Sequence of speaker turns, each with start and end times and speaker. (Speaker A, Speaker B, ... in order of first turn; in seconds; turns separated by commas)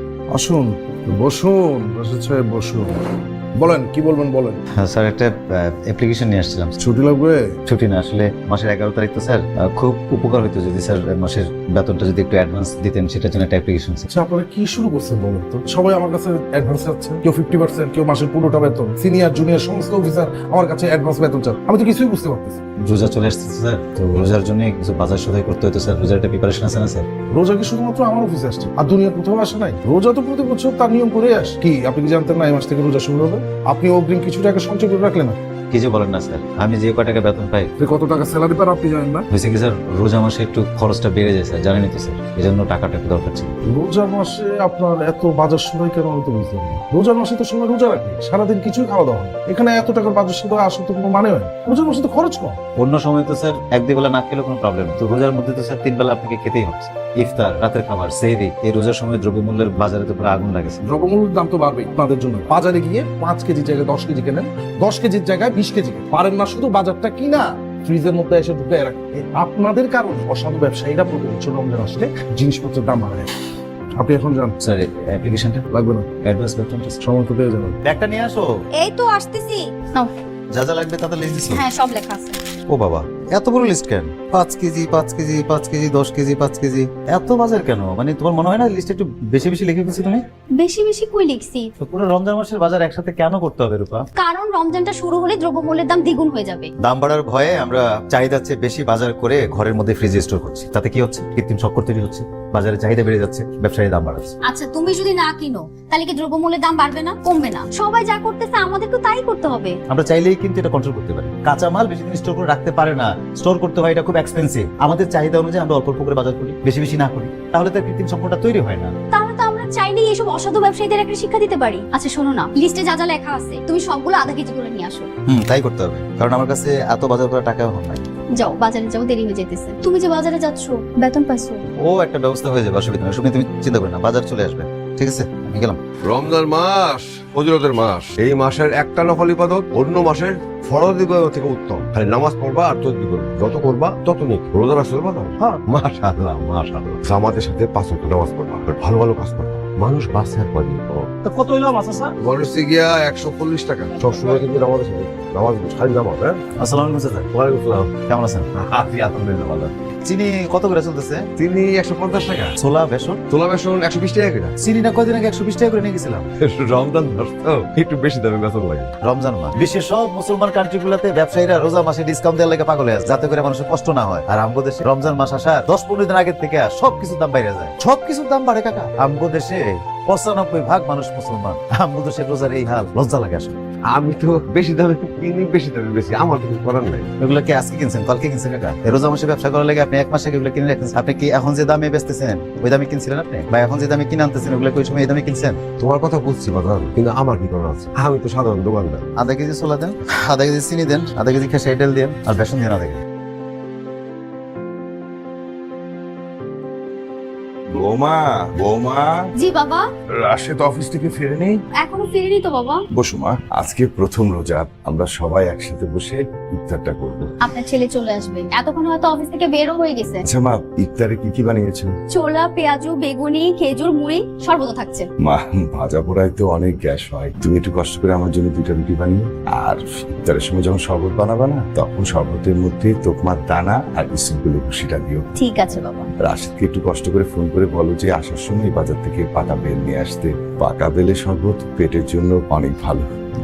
Speaker A: 0.3-3.0, Speaker A: 3.6-4.6, Speaker B: 4.8-6.8, Speaker A: 6.8-7.5, Speaker B: 7.7-14.1, Speaker A: 14.1-22.6, Speaker B: 22.8-27.1, Speaker A: 27.3-35.4, Speaker B: 35.7-37.7, Speaker A: 37.8-39.3, Speaker B: 39.3-43.5, Speaker A: 43.6-52.6, Speaker B: 52.8-60.8, Speaker A: 60.8-73.3, Speaker A: 74.0-74.5, Speaker B: 74.6-75.6, Speaker A: 75.7-76.1, Speaker B: 76.2-77.0, Speaker A: 77.0-77.8, Speaker B: 77.8-78.5, Speaker C: 78.8-80.1, Speaker B: 80.5-81.6, Speaker C: 81.5-82.4, Speaker B: 82.7-90.2, Speaker C: 90.6-91.6, Speaker B: 91.8-94.0, Speaker C: 94.2-96.7, Speaker B: 96.8-104.3, Speaker C: 104.5-109.8, Speaker B: 109.9-118.9, Speaker C: 119.1-125.1, Speaker B: 125.3-128.1, Speaker C: 128.4-131.6, Speaker B: 131.8-135.8, Speaker D: 136.1-151.1, Speaker B: 151.2-152.1, Speaker D: 152.2-156.4, Speaker B: 156.6-157.3, Speaker D: 157.3-157.9, Speaker B: 157.9-158.4, Speaker D: 158.6-159.7, Speaker B: 160.1-161.2, Speaker D: 161.4-162.5, Speaker B: 162.6-163.2, Speaker D: 163.3-164.5, Speaker B: 164.6-166.3, Speaker D: 166.4-168.9, Speaker B: 169.0-183.6, Speaker D: 183.9-187.1, Speaker B: 187.2-195.6, Speaker D: 195.8-199.0, Speaker B: 199.2-203.0, Speaker E: 207.7-209.2, Speaker C: 209.4-209.8, Speaker E: 210.3-211.5, Speaker C: 211.8-212.8, Speaker E: 212.9-217.3, Speaker C: 217.4-220.2, Speaker E: 220.2-221.9, Speaker C: 222.1-225.1, Speaker E: 225.2-235.3, Speaker C: 235.4-236.0, Speaker E: 236.2-243.1